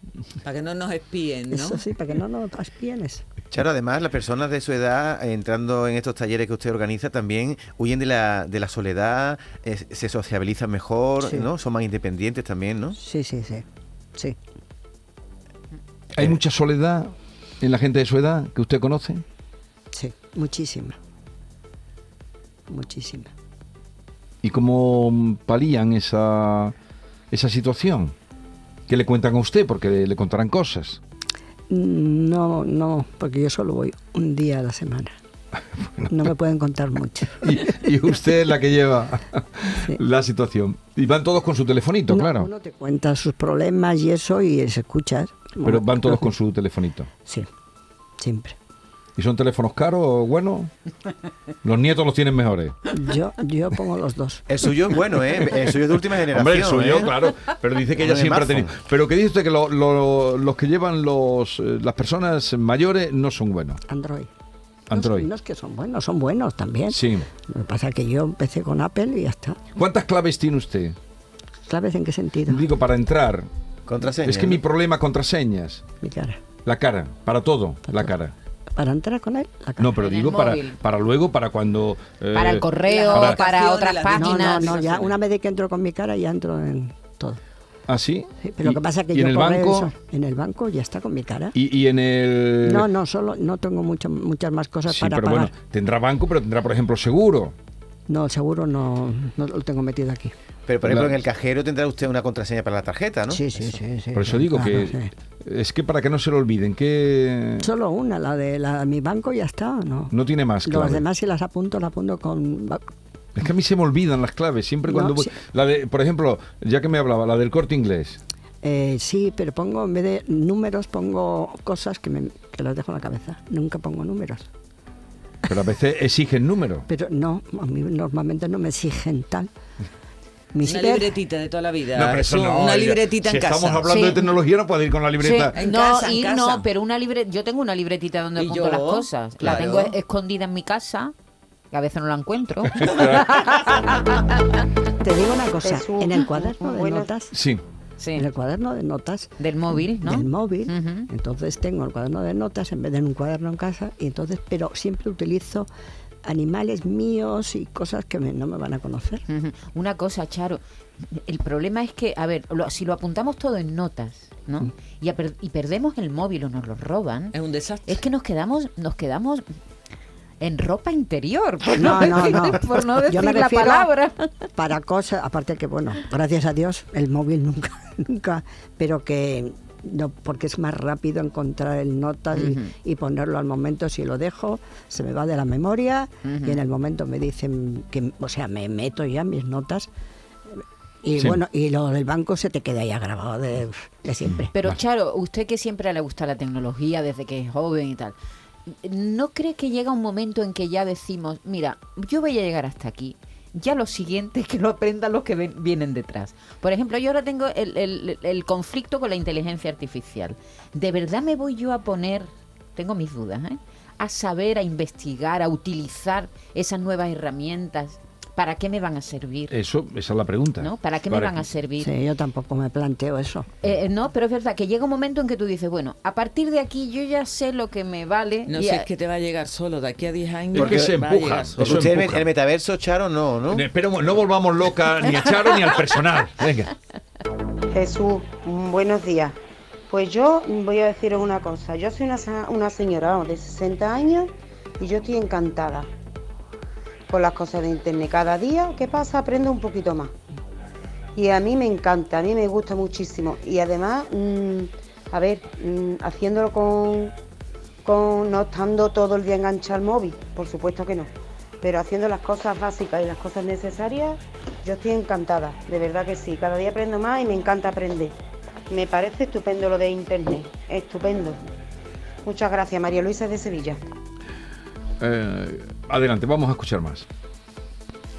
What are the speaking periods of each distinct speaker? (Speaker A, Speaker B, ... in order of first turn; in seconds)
Speaker A: 0.4-1.9, 82.8-85.2, 130.6-134.1, 135.5-136.7, 138.4-140.0, 167.3-168.0, 228.5-231.8
Speaker B: 1.5-3.3, 11.2-11.5, 13.0-14.4, 19.9-21.0, 22.7-23.3, 31.7-35.2, 36.1-37.7, 39.7-40.0, 42.1-46.3, 48.2-48.6, 52.9-54.5, 63.9-64.3, 64.9-69.6, 71.7-72.7, 76.0-76.4, 78.8-80.0, 84.1-87.4, 88.4-91.6, 92.6-95.5, 98.1-100.3, 103.3-105.1, 107.6-110.1, 110.7-112.9, 114.9-115.3, 118.6-124.5, 126.9-129.5, 130.5-131.1, 145.0-147.4, 148.2-155.7, 156.2-159.2, 171.8-173.9, 174.6-189.9, 190.5-194.5, 221.8-223.5
Speaker C: 3.5-13.0, 54.5-57.1, 58.0-58.8, 73.9-74.6, 100.7-103.5, 230.5-230.9, 231.6-233.7
Speaker D: 16.2-19.2, 24.4-26.7, 27.3-28.1, 28.9-31.0, 37.4-42.5, 45.6-47.1, 49.2-50.7, 51.6-52.8, 56.0-63.8, 64.9-65.3, 66.9-67.3, 69.8-71.0, 72.5-73.5, 74.2-75.8, 76.7-78.3, 79.8-83.4, 87.9-89.9, 91.5-92.9, 94.9-97.5, 100.8-101.1, 104.1-107.7, 110.1-111.0, 113.4-118.2, 125.5-126.8, 132.0-135.6, 142.8-143.4, 147.3-147.6, 219.5-221.5, 230.5-232.3, 233.5-236.7, 275.0-277.1
Speaker E: 80.0-80.8, 82.3-84.8, 133.9-134.3, 135.2-141.1, 141.7-144.2, 148.0-148.3, 149.4-151.1, 159.3-167.3, 167.9-169.5, 170.4-174.5, 182.3-182.7, 186.2-186.6, 194.5-198.2, 198.7-219.5, 220.6-221.9, 223.6-228.9
Speaker F: 145.6-147.1, 237.7-239.4, 239.9-245.9, 247.1-250.1, 251.2-257.1, 257.9-261.1, 261.6-268.1, 268.7-271.4, 272.2-273.8